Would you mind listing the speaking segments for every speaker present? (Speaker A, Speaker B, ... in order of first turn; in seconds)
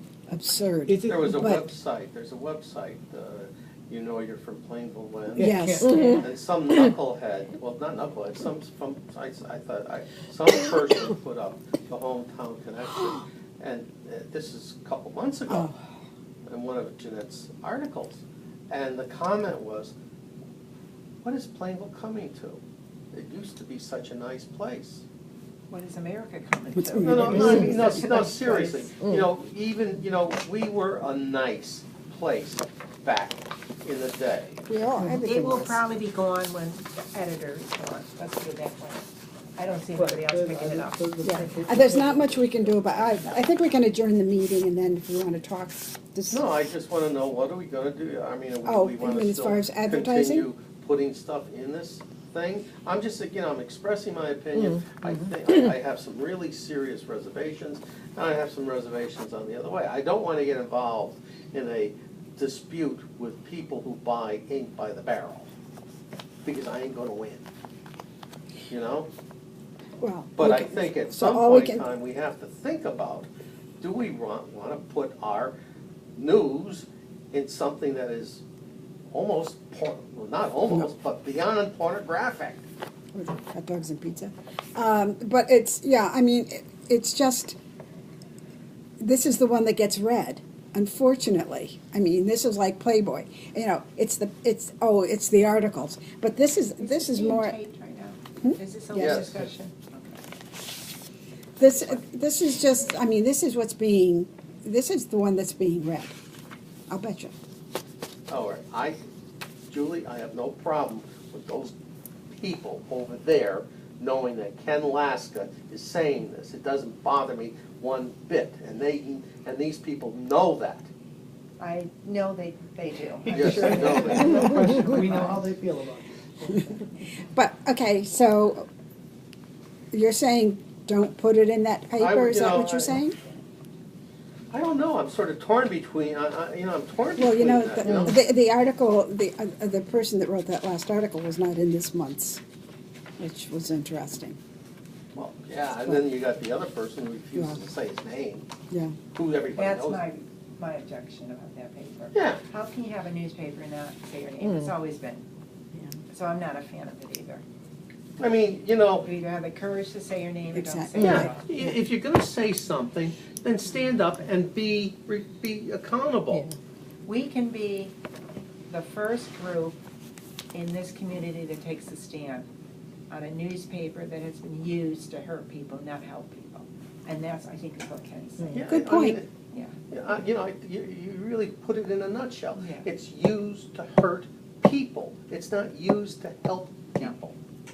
Speaker A: 0.3-1.6, 5.4-6.2, 15.5-15.8, 26.8-28.0, 34.7-35.8, 41.2-46.5, 48.6-50.5, 70.0-71.9, 83.1-87.5, 89.0-97.5, 98.4-99.3, 101.6-106.1, 106.9-107.3, 127.2-128.7, 129.9-133.2, 137.2-142.4, 143.2-144.4, 147.3-147.6, 148.7-148.9, 160.5-161.2, 178.7-179.2
Speaker B: 0.9-1.2, 5.3-5.9, 39.9-43.4, 123.2-126.8
Speaker C: 1.0-15.7, 16.4-19.9, 21.2-25.0, 27.0-34.6, 46.3-65.5, 66.4-67.5, 68.7-69.1, 70.3-73.3, 73.8-75.5, 76.2-78.4, 79.1-82.6, 98.9-99.5, 108.3-109.0, 109.7-111.7, 112.3-120.9, 123.3-124.5, 132.0-133.0, 134.5-138.2, 145.1-148.4, 149.1-150.0, 152.1-152.4, 158.2-159.1, 161.0-166.5, 178.5-179.3, 179.9-187.3
Speaker D: 25.7-28.9, 35.0-41.1, 96.8-100.2, 121.6-125.3, 149.5-155.2, 156.1-157.4, 159.0-161.5, 167.1-167.9, 168.7-169.8, 170.5-172.5, 173.1-178.7, 179.5-179.8, 182.6-182.9